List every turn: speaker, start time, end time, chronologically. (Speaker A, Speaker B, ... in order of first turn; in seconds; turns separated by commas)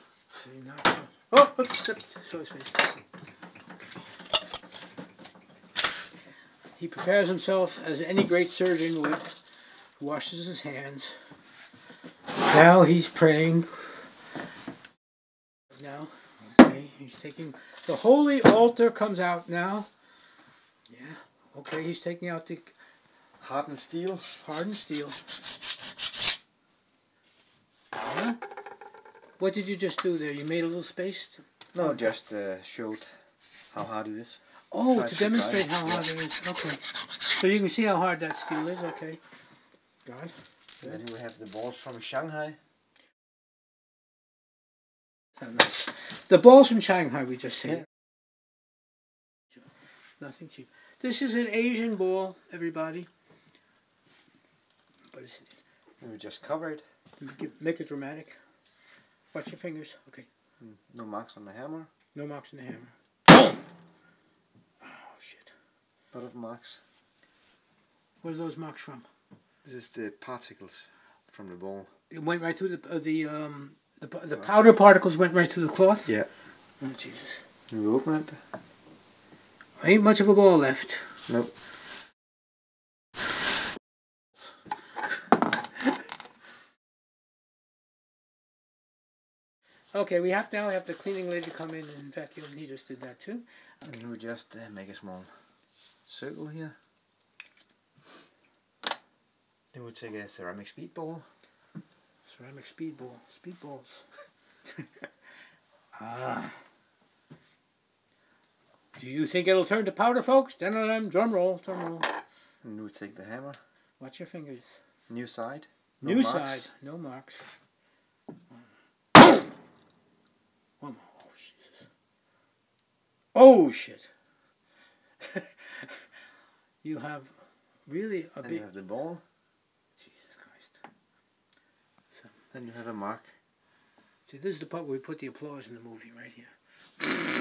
Speaker A: 0.3-3.0, Speaker A: 6.8-9.4, Speaker A: 10.0-11.2, Speaker A: 12.4-14.0, Speaker A: 15.7-19.9, Speaker A: 20.9-22.7, Speaker B: 23.4-24.4, Speaker A: 24.4-25.2, Speaker A: 27.9-28.4, Speaker A: 29.4-32.0, Speaker B: 31.7-33.1, Speaker B: 33.7-36.1, Speaker A: 34.7-39.2, Speaker A: 40.0-41.0, Speaker B: 40.8-42.6, Speaker A: 45.4-47.9, Speaker A: 50.2-53.1, Speaker A: 55.1-55.6, Speaker B: 56.0-56.8, Speaker A: 57.2-58.4, Speaker A: 59.3-60.3, Speaker B: 60.6-61.9, Speaker A: 62.1-63.5, Speaker A: 64.8-65.5, Speaker B: 66.1-66.8, Speaker A: 68.2-69.0, Speaker B: 69.6-71.9, Speaker A: 72.1-76.1, Speaker A: 76.8-77.4, Speaker B: 77.7-78.4, Speaker A: 79.8-81.1, Speaker A: 89.9-93.4, Speaker B: 93.8-95.3, Speaker B: 96.0-96.7, Speaker B: 99.7-101.2, Speaker A: 102.2-104.0, Speaker A: 105.9-106.6, Speaker A: 109.0-112.1, Speaker B: 112.6-113.6, Speaker A: 114.0-114.8, Speaker B: 115.1-116.7, Speaker A: 116.0-117.4, Speaker A: 120.8-121.8, Speaker A: 123.3-124.1, Speaker A: 125.2-125.9, Speaker A: 126.8-127.3, Speaker A: 127.9-128.6, Speaker B: 128.4-129.2, Speaker A: 129.9-130.8, Speaker A: 132.1-132.4, Speaker B: 132.5-133.3, Speaker A: 134.3-136.5